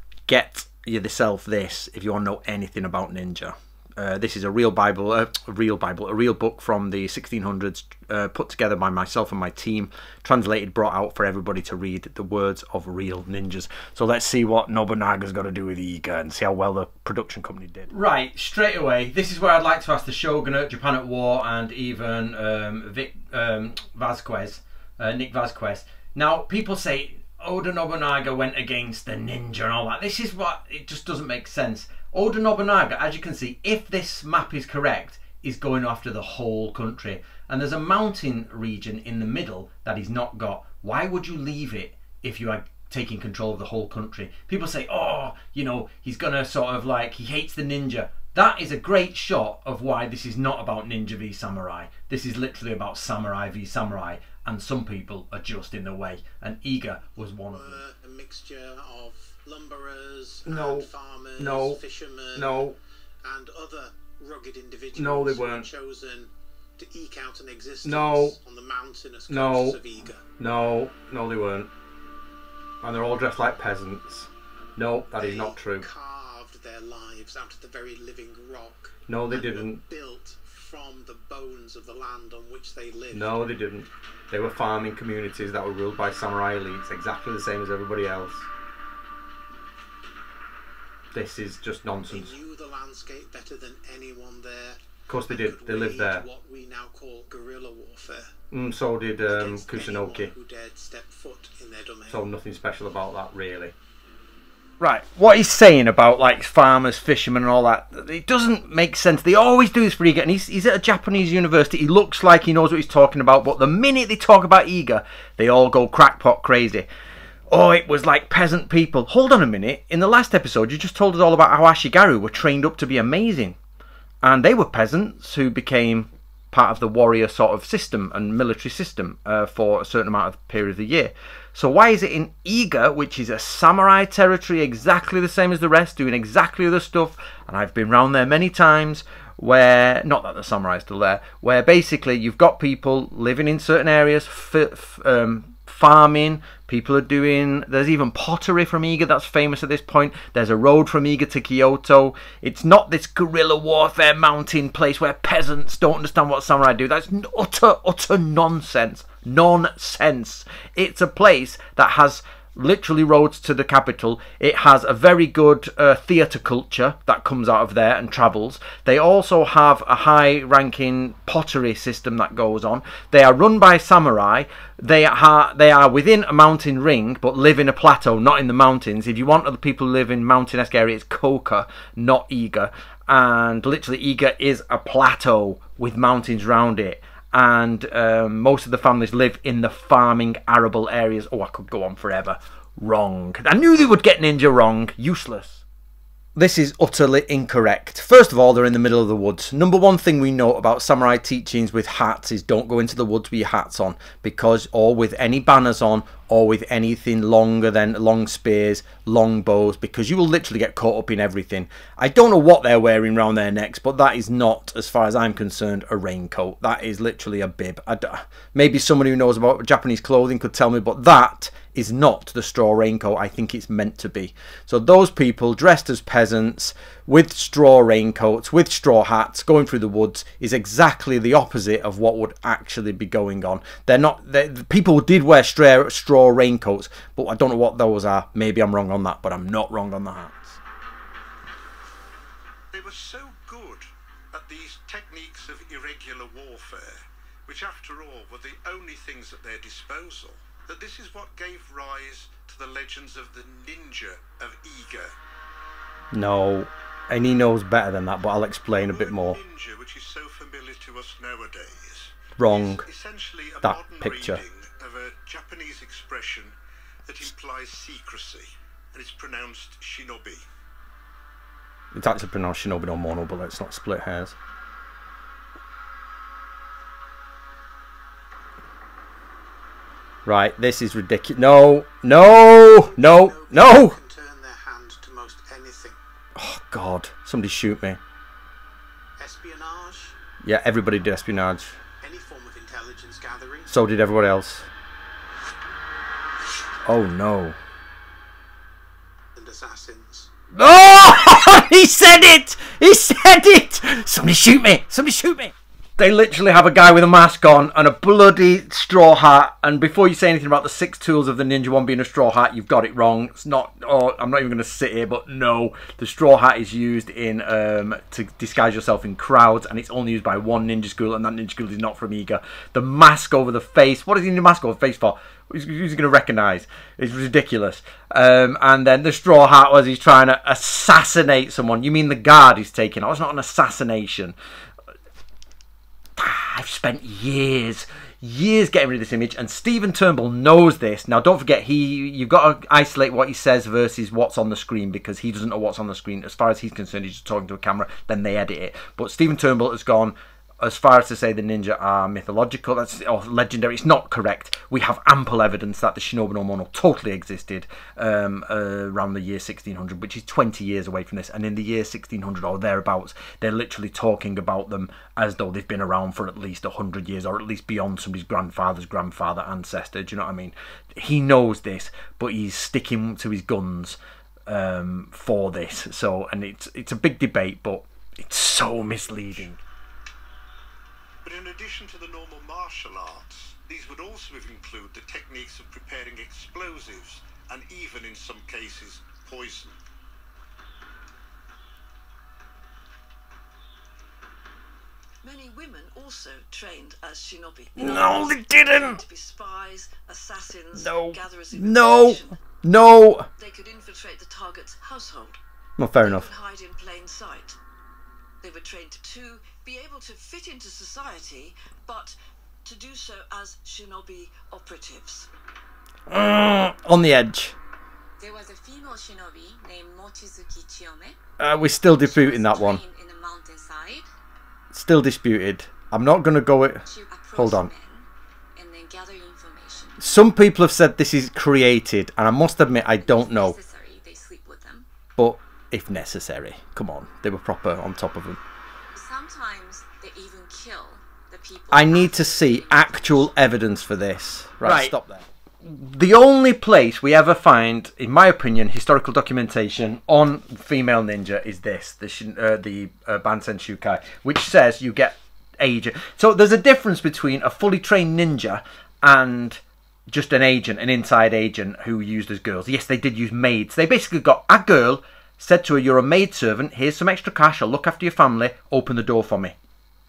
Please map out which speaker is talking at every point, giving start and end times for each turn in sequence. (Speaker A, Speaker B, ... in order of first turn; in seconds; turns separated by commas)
Speaker A: 0.3-57.8, Speaker B: 57.5-62.7, Speaker A: 60.5-61.8, Speaker A: 62.3-62.8, Speaker B: 63.2-70.2, Speaker A: 64.9-65.7, Speaker A: 67.8-68.3, Speaker A: 69.3-69.8, Speaker A: 70.4-71.7, Speaker A: 72.8-75.9, Speaker B: 75.2-83.4, Speaker A: 79.1-79.8, Speaker A: 83.1-88.5, Speaker A: 91.1-92.3, Speaker B: 92.1-98.3, Speaker A: 95.1-96.2, Speaker A: 98.5-100.3, Speaker B: 99.3-102.3, Speaker A: 102.1-103.7, Speaker A: 104.8-116.9, Speaker A: 117.5-123.6, Speaker A: 124.2-195.6, Speaker A: 196.3-240.6, Speaker C: 242.7-255.1, Speaker A: 256.1-259.4, Speaker C: 258.7-266.5, Speaker A: 262.4-262.9, Speaker A: 263.6-264.4, Speaker C: 267.1-270.4, Speaker A: 271.9-274.4, Speaker A: 280.2-283.9, Speaker B: 282.8-286.0, Speaker A: 286.4-288.0, Speaker B: 289.2-290.1, Speaker A: 290.4-291.7, Speaker B: 292.0-293.7, Speaker A: 293.7-294.7, Speaker A: 296.9-297.6, Speaker B: 299.4-300.3, Speaker A: 300.5-334.3, Speaker A: 336.2-379.6, Speaker C: 381.2-389.8, Speaker D: 395.2-402.4, Speaker A: 397.8-399.0, Speaker A: 400.7-403.3, Speaker D: 403.4-405.4, Speaker A: 405.8-406.3, Speaker D: 406.0-407.6, Speaker D: 408.4-415.3, Speaker A: 416.1-417.5, Speaker E: 418.2-421.2, Speaker A: 421.4-422.8, Speaker E: 422.0-424.1, Speaker A: 424.7-427.7, Speaker E: 426.9-430.1, Speaker A: 430.0-433.6, Speaker E: 432.9-434.9, Speaker A: 435.2-438.4, Speaker E: 438.9-443.6, Speaker A: 441.7-469.6